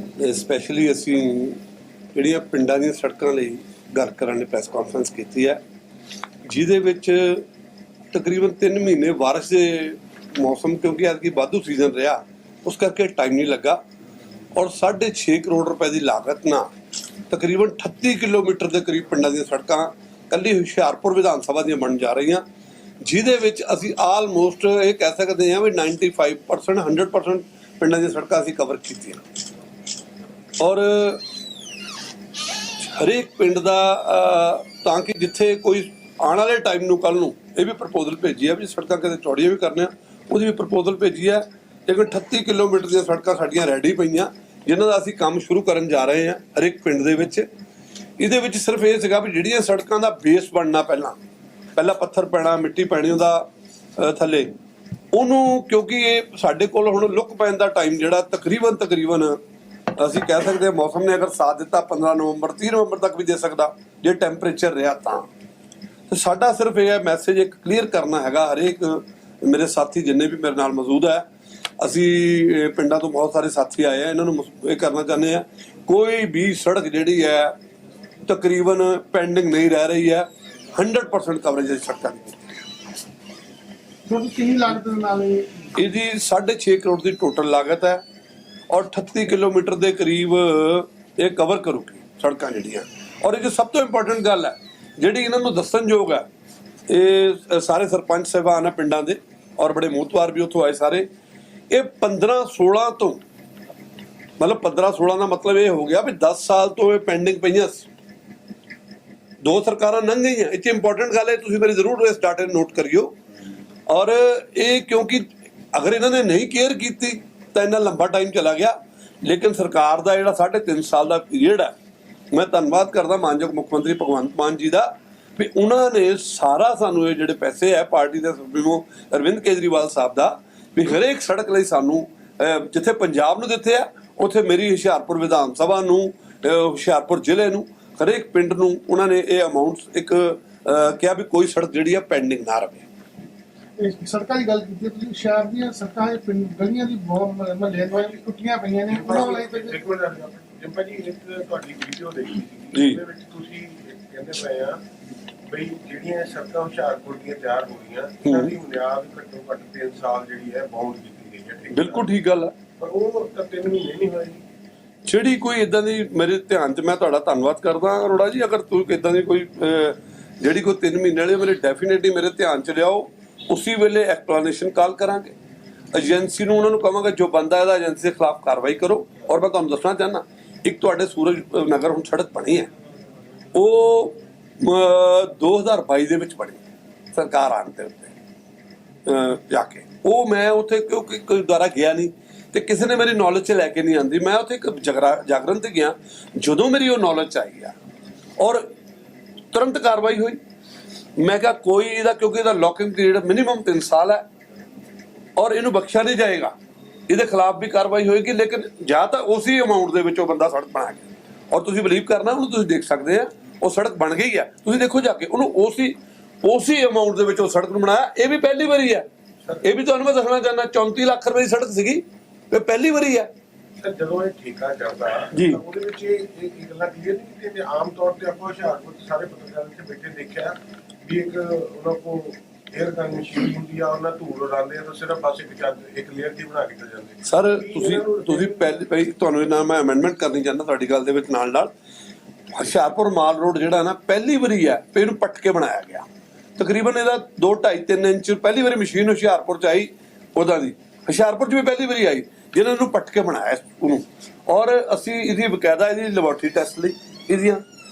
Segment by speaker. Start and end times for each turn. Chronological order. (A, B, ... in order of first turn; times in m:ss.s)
0:00.2-0:01.6 A
0:02.2-0:05.6 A
0:06.5-0:07.4 A
0:08.1-0:13.8 A
0:14.5-0:16.7 A
0:17.3-0:22.4 A
0:23.0-0:29.2 A
0:30.6-0:31.2 A
0:32.8-0:47.5 A
0:48.2-0:51.2 A
0:51.8-0:54.5 A
0:55.1-0:59.4 A
1:00.0-1:05.3 A
1:06.1-1:11.2 A
1:11.8-1:17.6 A
1:18.2-1:22.4 A
1:24.1-1:25.6 B
1:25.8-1:28.0 A
1:28.7-1:36.2 A
1:36.9-1:41.1 A
1:41.7-1:43.2 A
1:44.4-1:47.9 A
1:49.4-1:53.1 A
1:53.9-2:01.7 A
2:02.3-2:22.8 A
2:23.8-2:29.8 B
2:27.9-2:28.2 C
2:28.9-2:34.8 C
2:32.7-2:33.0 A
2:35.5-2:42.1 C
2:38.2-2:38.5 A
2:41.7-2:42.5 A
2:42.8-2:44.4 C
2:45.1-2:55.3 A
2:55.9-3:02.7 A
3:03.5-3:06.6 A
3:07.1-3:08.1 A
3:09.0-3:17.8 A
3:18.4-3:18.7 A
3:19.5-3:20.4 A
3:21.2-3:24.2 A
3:25.4-3:26.5 A
3:27.1-3:39.1 A
3:39.6-3:43.3 A
3:43.8-3:58.8 C
3:45.3-3:45.6 A
3:57.2-4:01.7 A
4:02.5-4:06.1 A
4:06.6-4:17.6 A